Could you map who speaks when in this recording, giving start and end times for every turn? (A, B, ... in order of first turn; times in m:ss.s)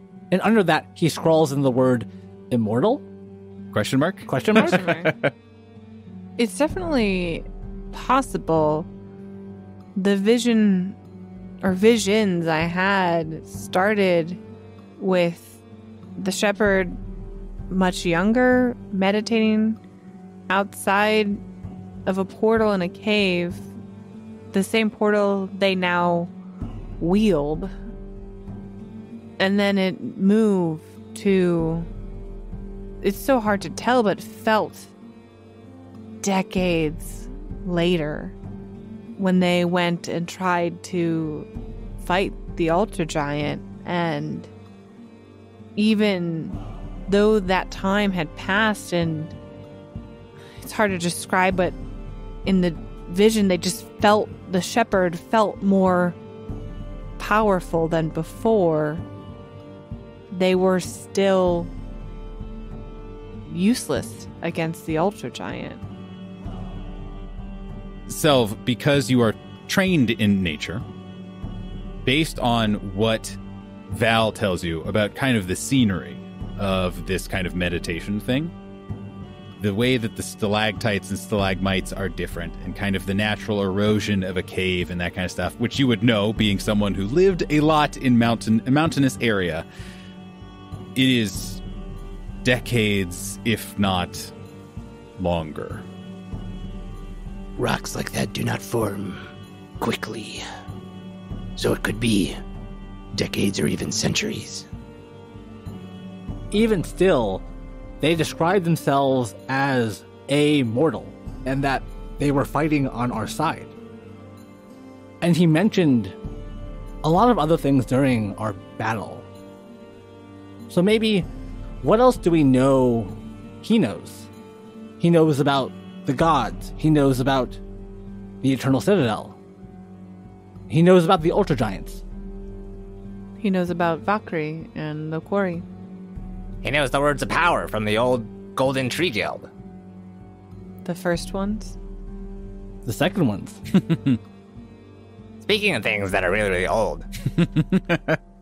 0:00.3-0:03.0 A
0:03.7-0:05.3 B
0:04.3-0:04.8 A
0:04.5-0:05.1 C
0:06.4-0:08.9 C
0:10.0-0:11.0 C
0:11.6-0:14.4 C
0:15.0-0:15.6 C
0:16.2-0:17.0 C
0:17.7-0:19.8 C
0:20.5-0:21.4 C
0:22.0-0:23.7 C
0:24.5-0:26.3 C
0:27.0-0:27.7 C
0:29.4-0:31.9 C
0:33.0-0:34.9 C
0:36.2-0:38.4 C
0:39.2-0:41.5 C
0:42.0-0:44.5 C
0:45.8-0:46.6 C
0:47.1-0:49.3 C
0:50.6-0:51.8 C
0:52.4-0:56.2 C
0:57.2-0:59.0 C
1:00.3-1:01.7 C
1:03.4-1:05.8 C
1:08.1-1:10.8 B
1:12.0-1:13.4 B
1:13.9-1:18.5 B
1:19.6-1:29.6 B
1:30.9-1:31.6 B
1:32.4-1:34.3 B
1:35.2-1:35.8 B
1:37.6-1:39.2 D
1:39.8-1:40.4 D
1:41.6-1:42.4 D
1:43.1-1:44.7 D
1:46.5-1:47.4 A
1:48.0-1:53.7 A
1:55.2-1:56.2 A
1:57.0-1:59.2 A
2:00.7-2:01.3 A
2:01.8-2:04.3 A
2:05.0-2:07.6 A
2:08.4-2:09.4 A
2:10.7-2:12.0 A
2:13.4-2:15.6 C
2:16.6-2:19.5 E
2:20.8-2:21.8 C
2:22.8-2:23.6 A
2:23.7-2:24.2 B
2:25.4-2:27.1 E
2:27.3-2:28.2 B